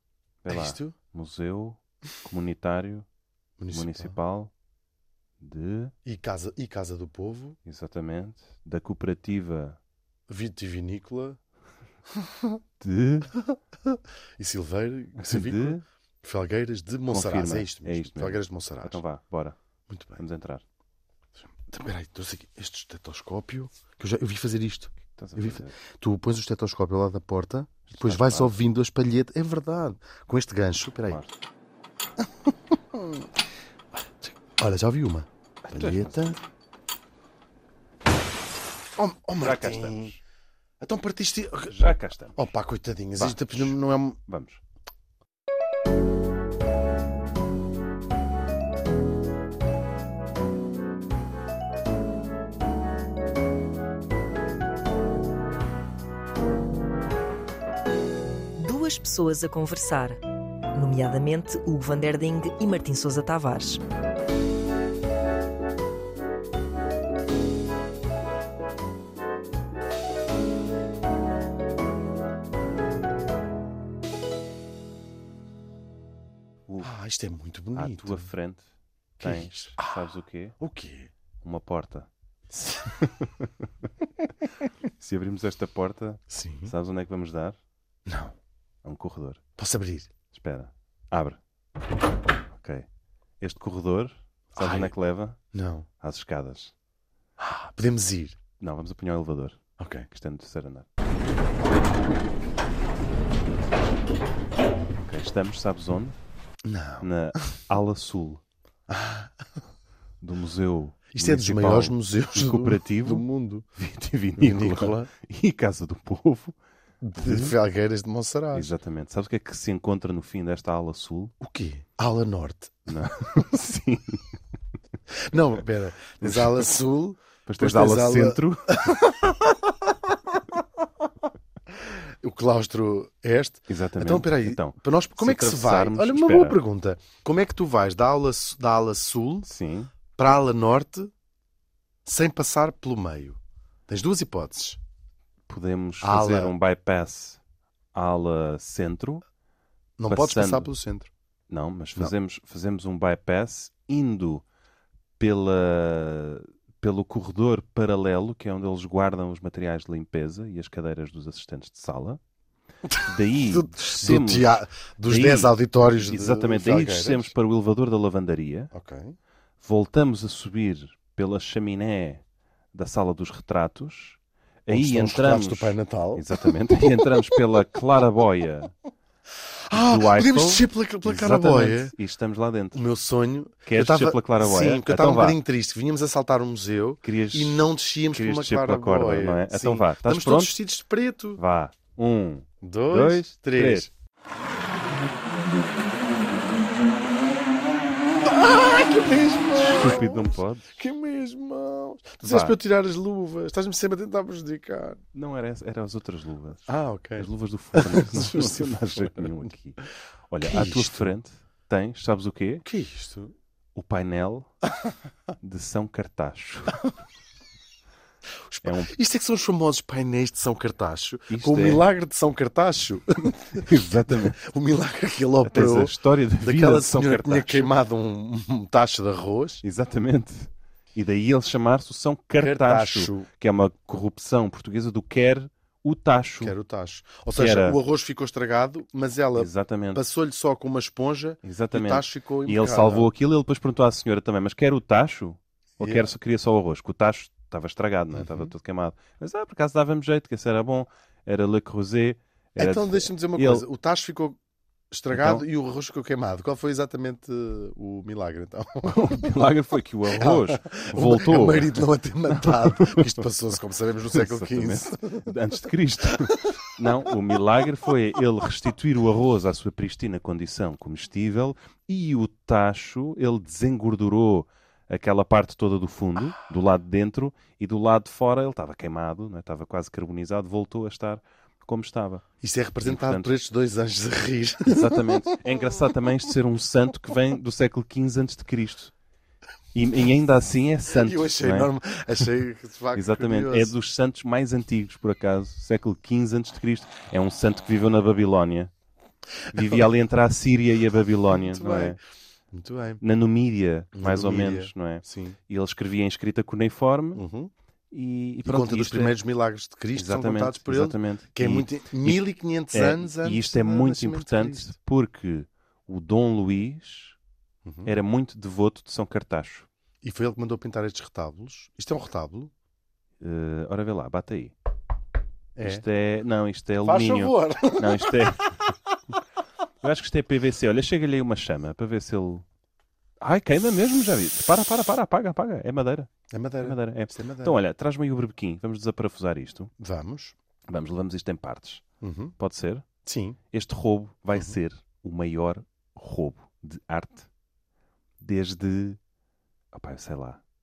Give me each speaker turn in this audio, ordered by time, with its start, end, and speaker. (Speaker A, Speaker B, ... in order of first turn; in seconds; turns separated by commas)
Speaker A: 0.4-3.1, Speaker B: 0.5-0.9, Speaker B: 3.6-4.2, Speaker A: 3.7-4.5, Speaker A: 5.4-5.9, Speaker B: 6.0-7.6, Speaker A: 7.6-9.8, Speaker B: 10.3-11.4, Speaker B: 12.1-12.6, Speaker A: 12.8-13.3, Speaker B: 13.3-19.0, Speaker A: 15.2-15.8, Speaker A: 17.1-19.6, Speaker B: 19.9-20.2, Speaker A: 20.2-20.6, Speaker B: 21.4-31.2, Speaker A: 25.0-25.8, Speaker A: 27.9-28.5, Speaker B: 32.2-33.3, Speaker B: 33.9-36.4, Speaker A: 35.6-36.4, Speaker B: 39.0-40.1, Speaker A: 39.4-40.2, Speaker B: 40.8-44.2, Speaker A: 41.7-42.5, Speaker A: 43.2-44.6, Speaker C: 58.6-60.2, Speaker C: 60.7-63.8, Speaker B: 76.8-78.3, Speaker A: 77.7-78.6, Speaker B: 79.2-80.0, Speaker A: 79.2-80.5, Speaker B: 80.6-81.1, Speaker A: 81.4-82.1, Speaker B: 82.5-82.9, Speaker A: 83.0-83.5, Speaker A: 85.0-87.6, Speaker B: 86.3-86.7, Speaker B: 88.0-88.3, Speaker A: 88.8-89.4, Speaker B: 89.6-90.1, Speaker A: 90.3-91.4, Speaker A: 92.5-92.8, Speaker A: 93.4-95.4, Speaker B: 94.5-94.9, Speaker B: 95.5-95.9, Speaker A: 96.0-96.7, Speaker B: 97.4-98.4, Speaker A: 98.6-100.9, Speaker B: 99.8-100.1, Speaker A: 105.0-106.1, Speaker B: 106.6-107.6, Speaker A: 107.0-108.4, Speaker B: 108.9-109.3, Speaker A: 110.2-113.2, Speaker B: 111.1-113.7, Speaker A: 113.8-116.5, Speaker B: 114.3-115.1, Speaker B: 117.0-118.7, Speaker A: 117.2-117.5, Speaker A: 118.5-121.3, Speaker B: 121.4-123.5, Speaker A: 122.9-124.4, Speaker B: 125.1-130.6, Speaker A: 126.2-126.7, Speaker A: 127.5-129.0, Speaker B: 131.7-139.5, Speaker A: 133.7-136.6, Speaker A: 139.4-139.9, Speaker B: 140.2-141.1, Speaker B: 142.0-144.8, Speaker A: 145.5-147.4, Speaker B: 146.0-146.5, Speaker A: 147.9-149.2, Speaker B: 150.0-151.1, Speaker A: 150.1-150.7, Speaker A: 151.5-154.4, Speaker A: 155.2-162.2, Speaker B: 162.9-167.3, Speaker A: 163.0-168.7, Speaker B: 168.7-169.2, Speaker A: 169.6-172.2, Speaker A: 172.7-178.7, Speaker B: 174.7-177.4, Speaker B: 179.7-181.9, Speaker A: 179.7-182.8, Speaker B: 182.7-191.4, Speaker A: 183.7-185.4, Speaker A: 187.0-190.5, Speaker A: 191.4-193.9, Speaker B: 192.6-193.9, Speaker B: 198.2-205.0, Speaker A: 199.6-200.8, Speaker A: 202.2-202.6, Speaker A: 205.1-212.6, Speaker B: 206.7-209.4, Speaker B: 210.4-211.1, Speaker B: 212.6-213.3, Speaker A: 213.7-214.5, Speaker A: 215.4-216.8, Speaker B: 218.5-229.6, Speaker A: 218.6-218.9, Speaker A: 221.3-221.8, Speaker A: 223.5-224.3, Speaker A: 225.5-227.7, Speaker A: 229.6-236.5, Speaker B: 232.4-233.3, Speaker B: 236.4-243.1, Speaker A: 237.3-237.8, Speaker A: 239.3-240.0, Speaker A: 241.4-253.7, Speaker B: 245.8-246.1, Speaker B: 248.1-248.5, Speaker B: 252.6-254.4, Speaker B: 254.9-259.3, Speaker A: 255.1-255.4, Speaker A: 258.8-263.3, Speaker B: 260.2-265.3, Speaker A: 264.1-282.2, Speaker B: 266.1-266.6, Speaker B: 282.4-285.6, Speaker A: 282.8-283.3, Speaker A: 284.7-288.9, Speaker A: 289.7-291.7, Speaker B: 290.9-293.7, Speaker A: 292.9-298.7, Speaker A: 299.5-302.0, Speaker B: 299.5-299.8, Speaker B: 301.3-302.0, Speaker B: 302.5-303.0, Speaker A: 303.0-307.2, Speaker B: 303.9-305.4, Speaker B: 307.1-307.5, Speaker A: 307.9-309.2, Speaker B: 308.4-314.7, Speaker A: 309.9-317.1, Speaker B: 317.6-317.9, Speaker A: 317.9-319.7, Speaker B: 320.0-322.5, Speaker A: 323.2-324.5, Speaker B: 325.5-325.8, Speaker A: 325.6-328.7, Speaker B: 326.8-328.9, Speaker A: 329.8-332.4, Speaker A: 333.2-339.7, Speaker B: 336.3-337.6, Speaker B: 339.8-340.3, Speaker A: 340.7-341.8, Speaker B: 342.0-342.3, Speaker A: 342.4-342.8, Speaker B: 343.0-343.4, Speaker A: 343.5-347.3, Speaker A: 348.2-349.0, Speaker A: 349.7-350.4